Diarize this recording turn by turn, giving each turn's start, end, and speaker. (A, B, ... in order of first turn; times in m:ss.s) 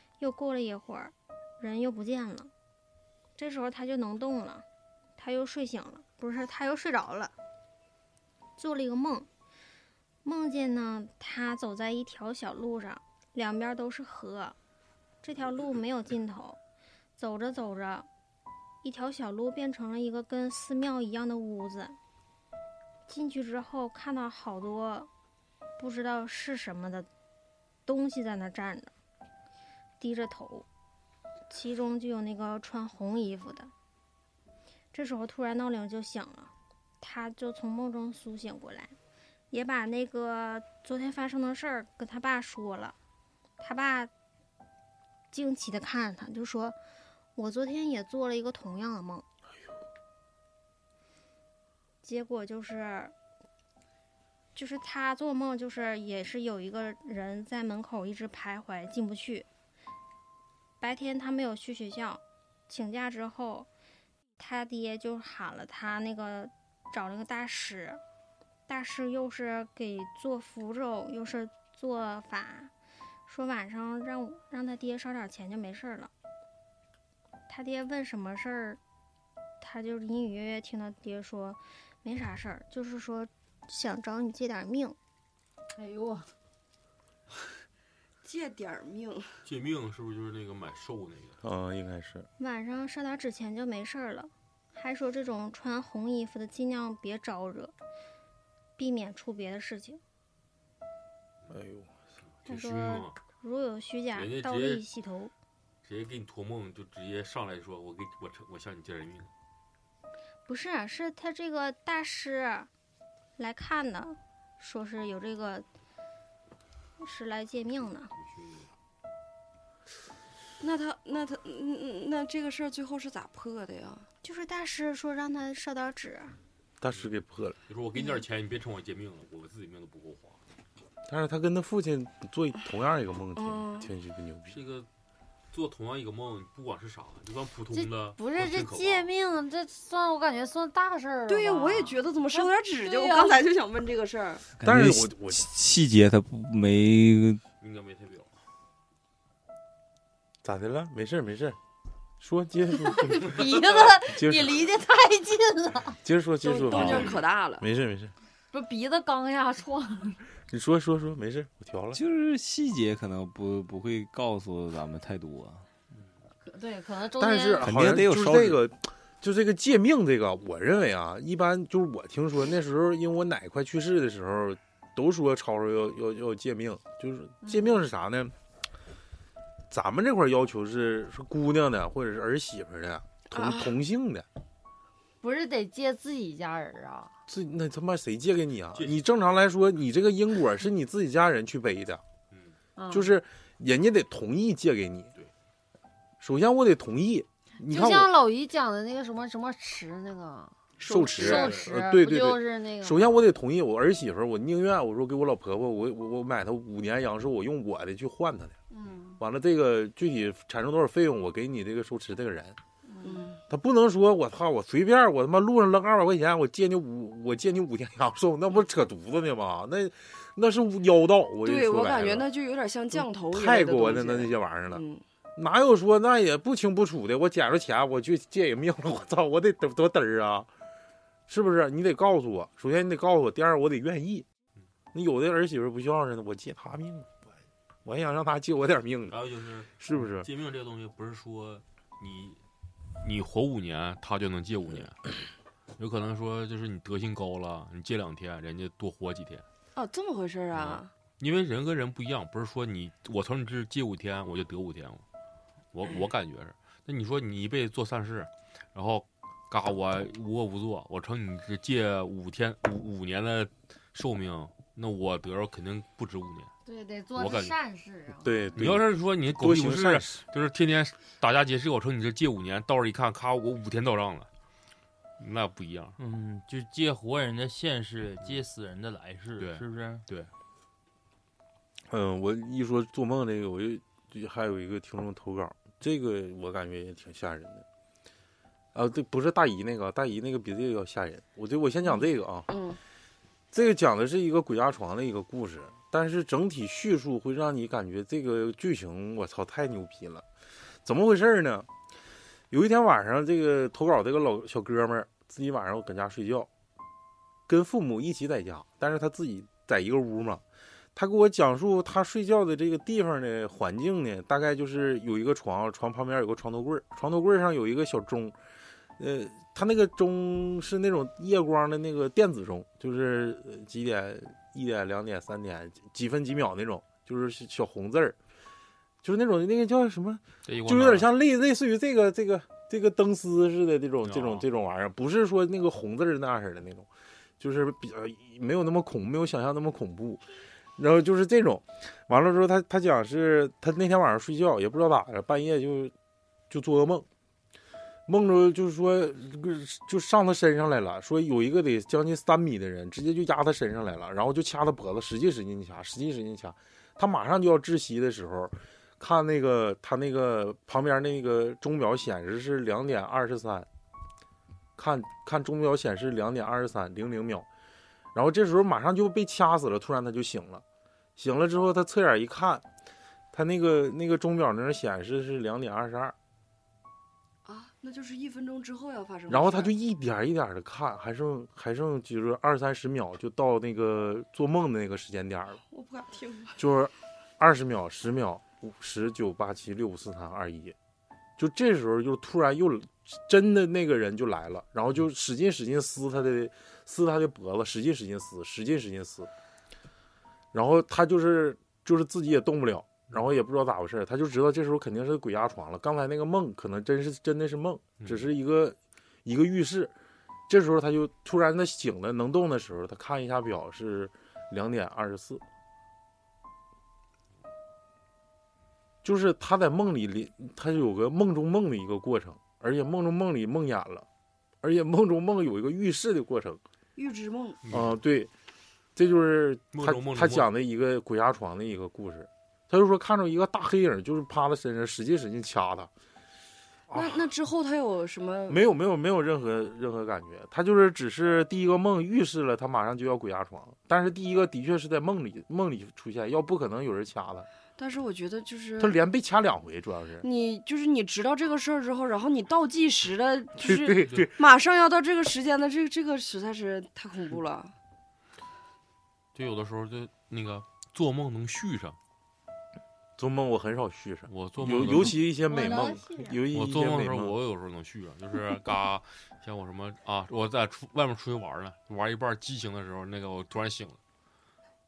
0:00.2-0:02.5 A
0:03.4-0:04.6 A
0:05.2-0:07.3 A
0:08.6-0:09.3 A
0:10.2-0:14.6 A
0:15.2-0:16.6 A
0:17.2-0:18.1 A
0:18.8-0:22.0 A
0:23.1-0:25.1 A
0:25.8-0:27.1 A
0:27.9-0:28.9 A
0:30.0-0:30.7 A
0:31.5-0:33.7 A
0:34.9-0:38.9 A
0:39.5-0:43.0 A
0:43.6-0:44.1 A
0:45.3-0:46.8 A
0:47.4-0:49.2 A
0:52.0-0:53.1 A
0:54.6-0:59.5 A
1:00.8-1:03.7 A
1:04.4-1:08.0 A
1:08.7-1:12.7 A
1:13.3-1:16.1 A
1:17.5-1:18.8 A
1:19.6-1:25.0 A
1:25.7-1:26.3 B
1:28.2-1:29.4 C
1:29.4-1:31.4 D
1:31.4-1:32.3 E
1:32.4-1:37.7 A
1:38.8-1:40.0 A
1:41.5-1:41.9 E
1:42.4-1:43.2 D
1:42.5-1:45.3 A
1:44.1-1:44.8 D
1:45.8-1:49.3 D
1:50.5-1:52.7 A
1:53.4-1:55.7 A
1:57.0-1:58.1 A
1:58.2-1:58.7 D
2:00.6-2:04.1 C
2:04.2-2:06.4 A
2:06.8-2:07.6 E
2:07.7-2:10.4 D
2:11.1-2:14.6 E
2:13.4-2:13.9 C
2:14.5-2:14.9 D
2:15.5-2:19.1 D
2:17.7-2:23.5 B
2:21.3-2:24.4 C
2:24.6-2:27.4 F
2:24.6-2:25.4 E
2:27.6-2:28.3 D
2:30.4-2:31.6 E
2:32.2-2:34.7 E
2:32.8-2:36.0 B
2:36.0-2:38.1 E
2:36.4-2:37.7 C
2:36.7-2:37.0 B
2:38.5-2:40.2 B
2:40.5-2:42.0 E
2:41.9-2:45.6 F
2:46.4-2:47.7 B
2:47.2-2:58.3 E
2:47.6-2:48.6 F
2:57.4-2:57.8 B
2:59.7-3:04.3 E
3:03.3-3:03.7 C
3:05.2-3:07.1 B
3:07.3-3:12.0 E
3:08.7-3:09.0 D
3:12.8-3:13.1 B
3:12.9-3:15.1 E
3:16.2-3:18.1 E
3:17.7-3:20.6 B
3:20.8-3:21.6 C
3:20.8-3:28.5 E
3:21.1-3:23.2 B
3:21.2-3:21.6 D
3:28.7-3:29.2 B
3:29.2-3:32.6 E
3:33.0-3:33.2 B
3:33.0-3:33.4 C
3:33.5-3:42.3 E
3:41.4-3:45.0 C
3:42.9-3:44.8 E
3:45.4-3:50.5 E
3:51.3-3:54.2 E
3:54.9-3:57.2 E
3:57.8-3:59.2 E
3:59.1-4:02.4 D
3:59.8-4:00.3 E
4:03.0-4:05.0 D
4:05.8-4:09.4 D
4:09.8-4:10.9 C
4:10.5-4:15.0 D
4:15.7-4:26.5 D
4:26.7-4:28.4 B
4:27.2-4:27.5 D
4:28.2-4:30.2 E
4:28.6-4:34.3 D
4:35.2-4:36.0 D
4:36.0-4:40.0 G
4:39.4-4:40.3 D
4:41.9-4:47.6 E
4:48.8-4:52.5 E
4:52.5-4:52.8 C
4:53.5-5:00.2 E
5:00.8-5:01.7 E
5:02.5-5:06.5 E
5:07.5-5:10.4 E
5:11.0-5:18.4 E
5:19.0-5:28.2 E
5:29.0-5:36.9 E
5:30.5-5:31.1 D
5:34.0-5:34.5 D
5:37.4-5:40.2 E
5:40.8-5:45.9 E
5:46.5-5:47.1 E
5:48.1-6:03.7 E
6:04.8-6:07.5 E
6:08.1-6:10.6 E
6:11.2-6:12.6 E
6:13.3-6:16.2 E
6:17.4-6:19.7 C
6:19.3-6:25.6 E
6:25.7-6:26.6 C
6:26.6-6:30.8 E
6:31.4-6:39.3 E
6:40.5-6:49.9 E
6:48.0-6:48.3 D
6:50.5-6:55.4 E
6:59.0-7:04.1 E
7:04.6-7:06.6 E
7:07.0-7:07.6 C
7:07.7-7:08.0 D
7:07.7-7:08.3 E
7:09.0-7:15.9 E
7:09.7-7:10.5 D
7:16.9-7:17.3 E
7:16.9-7:18.6 C
7:18.5-7:27.5 E
7:27.8-7:29.0 C
7:28.8-7:30.2 E
7:30.2-7:37.7 C
7:33.6-7:34.4 E
7:39.3-7:42.0 D
7:43.2-7:47.3 E
7:44.3-7:45.3 D
7:45.5-7:46.4 A
7:46.5-7:54.0 D